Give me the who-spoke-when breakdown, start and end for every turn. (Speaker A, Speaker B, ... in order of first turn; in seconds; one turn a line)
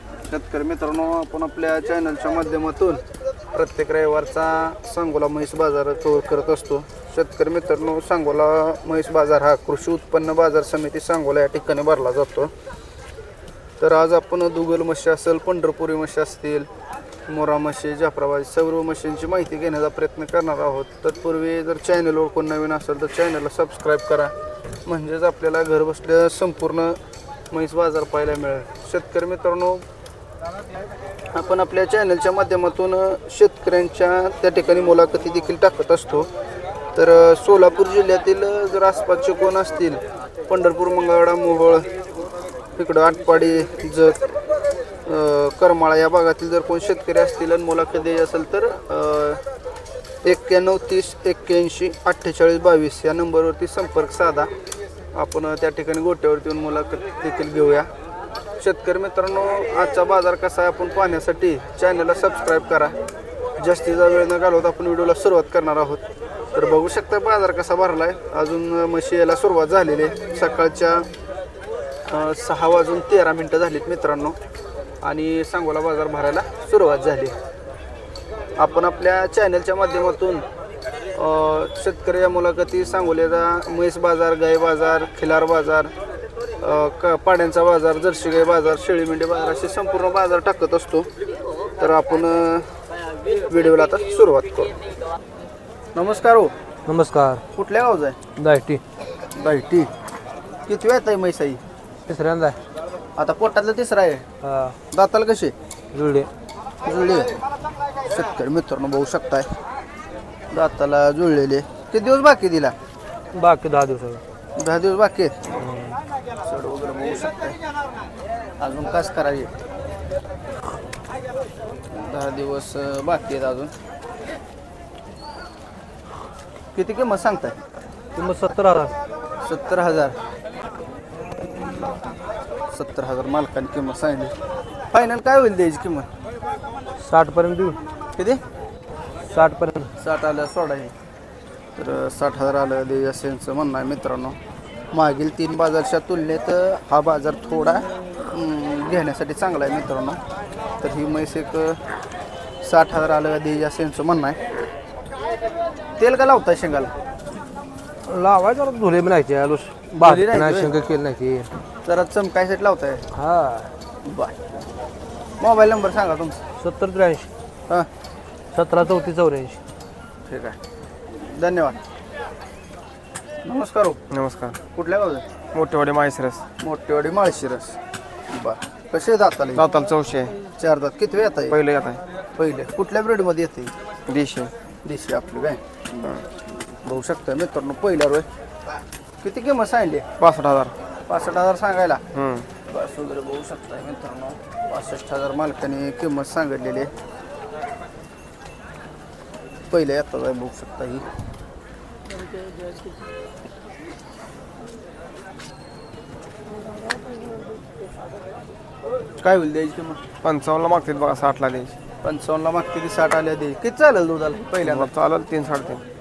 Speaker A: 0.3-12.5
Speaker A: 13.8-16.7
Speaker A: 17.3-24.3
Speaker A: 24.8-27.0
Speaker A: 27.5-29.8
Speaker A: 31.3-36.3
Speaker A: 36.9-41.9
Speaker A: 42.8-44.2
Speaker A: 45.0-49.4
Speaker A: 50.2-54.5
Speaker A: 55.1-57.9
Speaker A: 58.6-62.9
Speaker A: 63.6-66.0
Speaker A: 66.5-71.1
Speaker A: 72.0-74.4
Speaker A: 75.0-77.3
Speaker A: 78.6-80.4
Speaker A: 81.1-85.9
Speaker A: 86.6-91.1
Speaker A: 91.8-92.7
Speaker A: 93.5-94.7
Speaker A: 95.9-96.5
Speaker B: 96.8-97.4
Speaker A: 97.5-98.2
Speaker B: 98.4-98.8
Speaker A: 99.3-99.9
Speaker A: 100.7-101.6
Speaker B: 102.1-102.6
Speaker A: 103.2-104.2
Speaker B: 104.4-104.7
Speaker A: 104.9-105.5
Speaker B: 105.9-106.3
Speaker A: 106.8-107.4
Speaker A: 108.0-109.5
Speaker A: 110.5-112.7
Speaker B: 113.3-114.2
Speaker A: 114.5-115.3
Speaker B: 115.6-115.9
Speaker A: 116.4-117.6
Speaker A: 118.6-119.5
Speaker A: 121.9-123.7
Speaker A: 126.7-127.5
Speaker B: 128.1-128.9
Speaker A: 129.4-130.2
Speaker A: 132.7-134.3
Speaker A: 134.9-136.1
Speaker B: 137.0-137.8
Speaker A: 138.2-138.4
Speaker B: 139.3-139.9
Speaker A: 140.0-140.9
Speaker A: 141.8-144.4
Speaker A: 144.9-150.2
Speaker A: 150.8-151.8
Speaker A: 152.6-154.4
Speaker A: 156.0-156.9
Speaker B: 158.0-161.5
Speaker A: 160.0-160.8
Speaker A: 161.8-163.0
Speaker B: 163.1-163.7
Speaker A: 164.0-164.3
Speaker A: 165.4-166.4
Speaker B: 166.6-167.3
Speaker B: 168.5-169.6
Speaker A: 170.3-170.6
Speaker A: 171.2-171.8
Speaker A: 173.4-174.0
Speaker C: 174.1-174.6
Speaker A: 174.7-175.2
Speaker C: 175.5-176.4
Speaker A: 176.6-177.8
Speaker A: 178.3-179.6
Speaker C: 179.6-180.3
Speaker A: 180.6-181.6
Speaker C: 181.5-182.0
Speaker A: 182.3-183.7
Speaker C: 184.1-184.5
Speaker A: 184.8-186.0
Speaker A: 186.8-188.3
Speaker A: 189.2-190.1
Speaker C: 190.2-190.7
Speaker A: 191.1-192.0
Speaker C: 192.1-192.4
Speaker A: 192.7-196.9
Speaker A: 199.7-201.0
Speaker A: 209.2-210.0
Speaker C: 210.2-211.8
Speaker A: 212.0-214.9
Speaker C: 214.6-215.8